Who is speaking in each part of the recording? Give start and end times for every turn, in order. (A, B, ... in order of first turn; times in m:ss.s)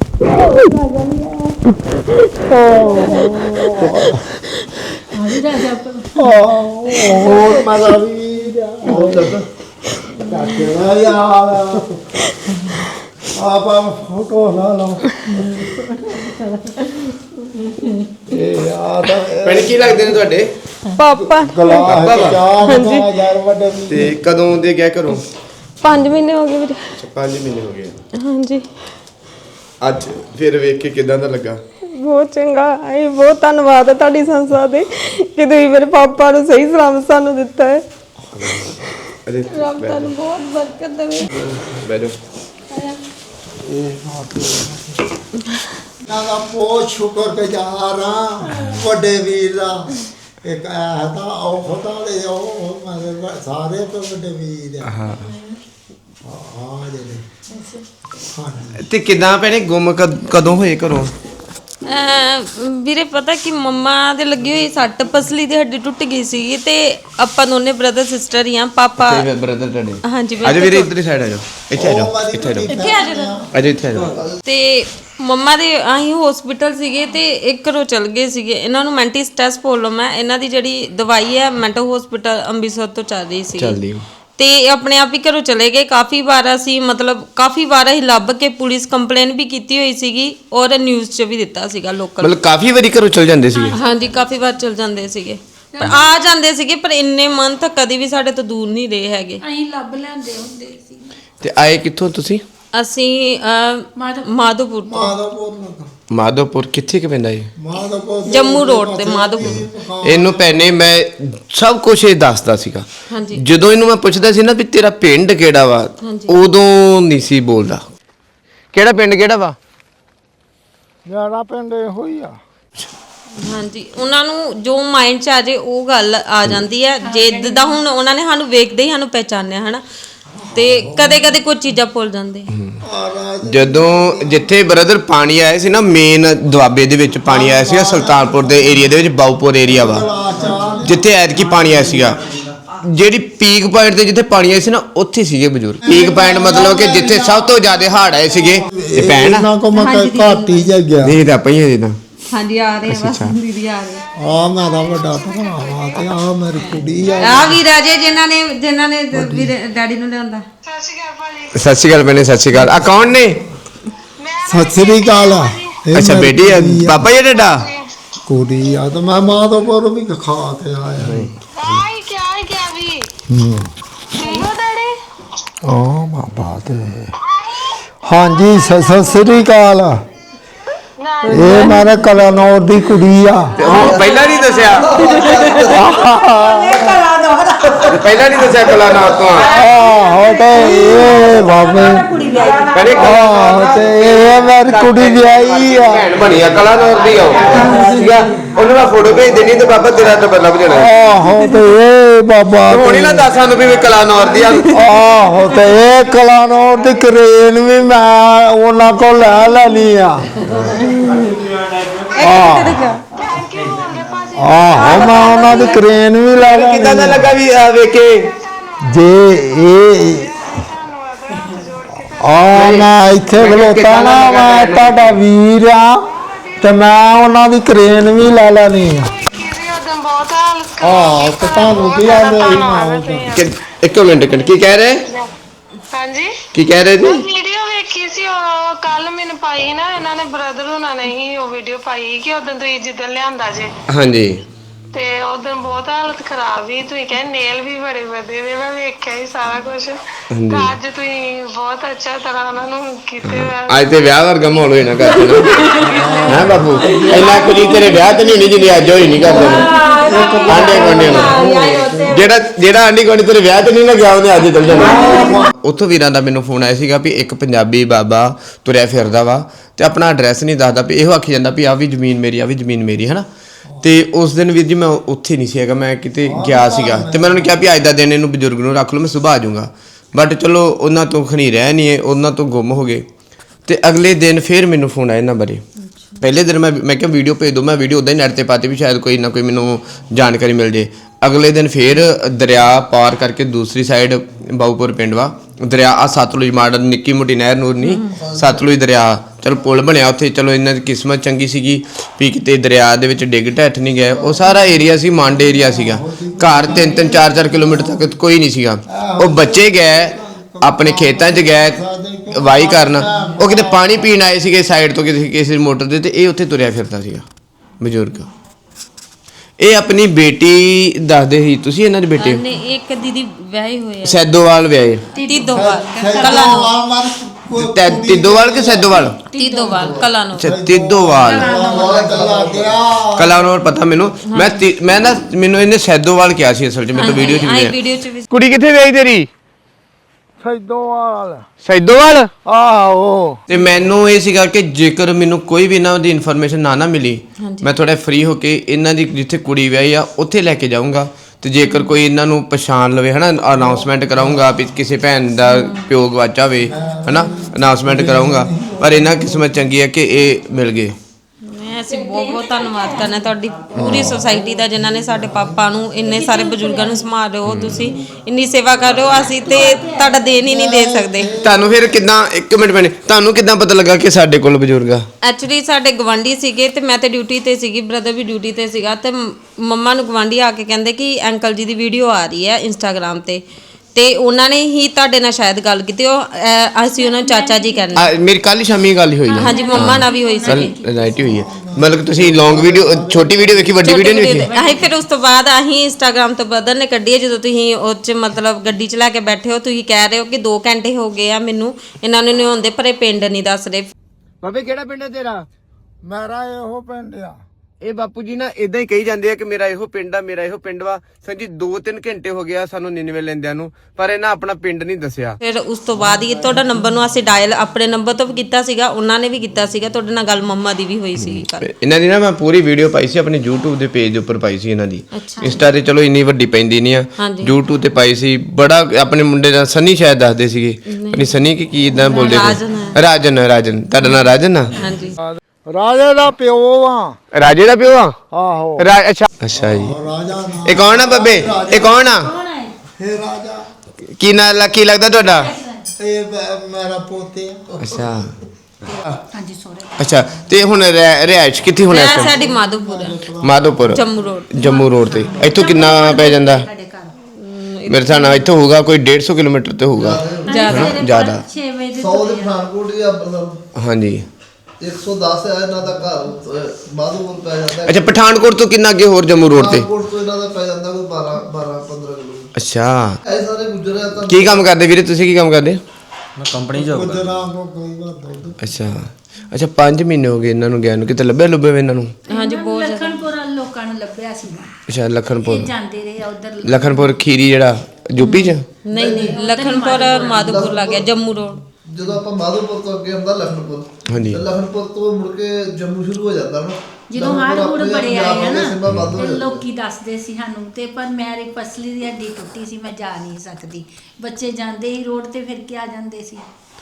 0:00.3-0:01.6 A
0:02.4-0:04.2 B
0:02.6-0:03.9 A
0:05.1-0:06.4 A
0:06.1-0:09.4 B
0:06.9-0:07.6 A
0:08.9-0:09.4 C
0:10.2-0:12.2 B
0:13.3-0:15.7 B
0:15.5-0:16.9 A
0:17.6-0:18.0 A
0:18.3-0:20.2 B
0:19.4-0:20.5 D
0:21.0-0:22.0 E
0:21.2-0:24.2 B
0:21.7-0:22.4 D
0:22.6-0:23.1 E
0:23.9-0:25.2 D
0:25.8-0:26.9 E
0:27.0-0:28.0 D
0:28.1-0:28.7 E
0:29.8-0:31.6 D
0:31.9-0:37.8 E
0:38.4-0:38.7 D
0:39.2-0:40.1 D
0:39.5-0:41.3 E
0:41.3-0:42.2 D
0:43.6-0:45.1 B
0:46.0-0:55.0 B
0:54.8-0:55.2 D
0:55.1-0:55.3 A
0:56.2-0:57.2 B
0:57.5-0:57.8 A
0:58.3-0:58.8 B
0:58.8-1:01.1 D
1:01.9-1:09.2 E
1:09.0-1:12.7 D
1:10.0-1:10.9 E
1:11.7-1:14.2 B
1:12.6-1:13.3 E
1:13.5-1:14.1 D
1:14.1-1:14.4 C
1:14.4-1:23.8 E
1:23.6-1:24.0 D
1:24.4-1:32.4 E
1:32.2-1:33.8 D
1:33.5-1:34.5 A
1:33.7-1:39.4 E
1:35.7-1:36.1 A
1:39.4-1:41.1 A
1:41.4-1:42.4 D
1:42.7-1:45.1 E
1:44.0-1:44.5 A
1:44.8-1:45.9 B
1:46.1-1:47.5 D
1:47.6-1:50.7 B
1:48.2-1:49.6 E
1:49.4-1:57.8 D
1:53.1-1:53.4 E
1:56.0-1:56.4 E
1:58.7-1:59.6 D
2:01.0-2:02.4 B
2:03.4-2:09.8 E
2:07.0-2:07.8 A
2:10.3-2:11.3 B
2:10.5-2:12.5 E
2:12.8-2:14.5 B
2:13.4-2:20.1 D
2:17.2-2:18.9 B
2:19.6-2:21.1 B
2:20.3-2:22.6 F
2:20.8-2:22.2 D
2:22.8-2:29.5 D
2:25.8-2:27.2 B
2:26.1-2:28.6 G
2:28.6-2:31.2 B
2:29.7-2:30.7 E
2:31.0-2:32.0 D
2:32.3-2:34.0 E
2:32.9-2:33.4 D
2:34.0-2:38.0 G
2:34.2-2:37.6 B
2:37.2-2:40.4 E
2:39.1-2:39.5 B
2:40.6-2:42.5 G
2:41.5-2:43.4 D
2:42.5-2:43.4 B
2:44.2-2:45.8 G
2:44.5-2:47.0 B
2:45.9-2:47.6 D
2:47.0-2:47.8 G
2:48.3-2:51.3 B
2:51.0-2:51.8 D
2:51.6-2:53.0 G
2:53.3-2:53.7 B
2:54.1-2:54.9 G
2:55.6-2:57.1 B
2:57.6-2:59.6 G
2:58.0-3:00.0 B
3:01.0-3:02.4 G
3:01.3-3:03.6 B
3:03.6-3:05.6 D
3:03.6-3:06.0 C
3:03.6-3:03.9 G
3:03.8-3:05.3 A
3:05.6-3:07.0 B
3:05.8-3:08.0 A
3:07.9-3:09.5 D
3:09.3-3:11.3 G
3:09.4-3:12.1 B
3:09.7-3:13.1 A
3:12.7-3:20.9 D
3:12.8-3:13.7 G
3:12.9-3:16.1 B
3:17.0-3:17.3 G
3:17.3-3:18.5 B
3:17.5-3:17.8 A
3:20.7-3:23.3 B
3:22.7-3:24.8 D
3:24.7-3:31.0 B
3:31.2-3:32.1 F
3:32.1-3:33.0 E
3:32.2-3:32.8 B
3:33.1-3:36.0 G
3:33.6-3:34.0 F
3:34.4-3:37.4 B
3:35.4-3:35.7 E
3:36.4-3:38.3 D
3:37.6-3:43.2 G
3:38.8-3:40.3 B
3:42.2-3:46.0 B
3:42.5-3:45.1 D
3:46.1-3:47.0 G
3:46.6-3:49.1 B
3:49.1-3:55.3 G
3:50.8-3:53.3 B
3:53.3-3:55.0 D
3:55.9-3:56.3 G
3:56.5-3:57.2 D
3:56.9-4:03.7 G
4:03.9-4:04.4 D
4:04.9-4:14.9 G
4:10.3-4:10.7 D
4:13.2-4:15.5 D
4:15.0-4:22.3 E
4:15.8-4:17.9 B
4:15.9-4:17.1 A
4:16.3-4:19.7 D
4:19.2-4:22.3 B
4:19.2-4:21.4 A
4:20.5-4:21.4 D
4:22.1-4:33.2 D
4:24.8-4:25.5 B
4:33.7-4:34.0 B
4:33.8-4:43.0 D
4:36.2-4:37.6 B
4:43.7-4:45.6 D
4:46.2-5:11.8 D
4:57.8-4:58.1 E
4:58.1-4:58.6 C
5:04.1-5:04.4 C
5:05.2-5:08.1 B
5:08.9-5:14.0 B
5:12.3-5:17.2 D
5:17.8-5:18.3 D
5:19.6-5:22.4 D
5:22.2-5:24.2 E
5:24.0-5:25.0 D
5:25.1-5:26.7 A
5:25.2-5:26.7 E
5:25.5-5:29.1 B
5:27.5-5:29.2 D
5:29.3-5:30.1 A
5:29.3-5:30.5 E
5:29.7-5:30.1 C
5:30.4-5:33.4 B
5:30.4-5:31.6 D
5:31.2-5:32.2 A
5:31.5-5:32.8 C
5:33.2-5:37.7 D
5:34.3-5:34.6 E
5:36.9-5:38.3 E
5:38.3-5:39.3 D
5:40.4-5:41.5 B
5:41.6-5:42.3 D
5:42.4-5:43.4 B
5:43.5-6:01.0 D
5:47.4-5:47.7 E
5:51.6-5:52.0 E
5:53.6-5:54.5 B
5:55.4-5:55.8 E
5:56.6-5:59.7 B
6:01.5-6:11.4 E
6:01.9-6:03.3 A
6:03.7-6:04.2 D
6:04.2-6:05.9 B
6:06.0-6:07.1 A
6:07.4-6:07.9 D
6:09.3-6:10.3 A
6:10.2-6:11.8 B
6:11.4-6:15.0 D
6:15.2-6:23.4 E
6:23.9-6:28.1 E
6:26.9-6:28.1 A
6:28.0-6:34.5 D
6:29.3-6:31.1 A
6:29.3-6:30.7 E
6:31.1-6:34.0 B
6:33.8-6:43.9 E
6:34.4-6:35.0 A
6:44.4-6:45.4 D
6:46.0-6:47.4 B
6:47.8-6:55.4 D
6:55.4-7:01.7 E
6:56.2-6:56.7 B
7:01.3-7:14.7 D
7:05.1-7:05.7 E
7:05.4-7:05.6 A
7:07.2-7:07.6 E
7:10.9-7:11.4 E
7:11.9-7:13.0 E
7:14.7-7:15.2 E
7:15.2-7:17.2 B
7:17.3-7:18.1 D
7:18.3-7:18.9 B
7:18.8-7:19.9 D
7:19.5-7:22.1 B
7:20.6-7:22.3 D
7:22.2-7:22.7 A
7:23.0-7:23.7 B
7:24.2-7:25.5 D
7:25.2-7:25.9 A
7:26.0-7:28.3 B
7:27.8-7:28.3 D
7:28.8-7:30.5 A
7:30.0-7:32.4 D
7:31.8-7:33.2 E
7:32.0-7:34.0 B
7:33.4-7:36.6 D
7:33.9-7:34.9 E
7:34.5-7:37.1 A
7:37.4-7:38.5 E
7:37.9-7:41.4 D
7:39.9-7:40.9 C
7:40.5-7:42.6 A
7:40.5-7:41.0 E
7:42.0-7:43.6 C
7:43.7-7:44.2 D
7:44.8-7:48.2 C
7:47.8-7:49.9 D
7:49.5-7:52.5 C
7:52.6-7:53.2 D
7:53.2-7:54.7 C
7:54.3-7:55.8 D
7:56.4-7:57.3 F
7:56.7-7:58.7 B
7:58.6-8:02.1 D
8:02.3-8:04.7 A
8:02.3-8:03.2 E
8:04.9-8:05.7 D
8:05.4-8:07.1 A
8:06.6-8:08.6 D
8:08.2-8:11.6 E
8:08.9-8:11.1 C
8:09.3-8:10.9 A
8:11.9-8:19.6 C
8:14.1-8:14.4 D
8:17.1-8:26.5 A
8:18.8-8:19.2 D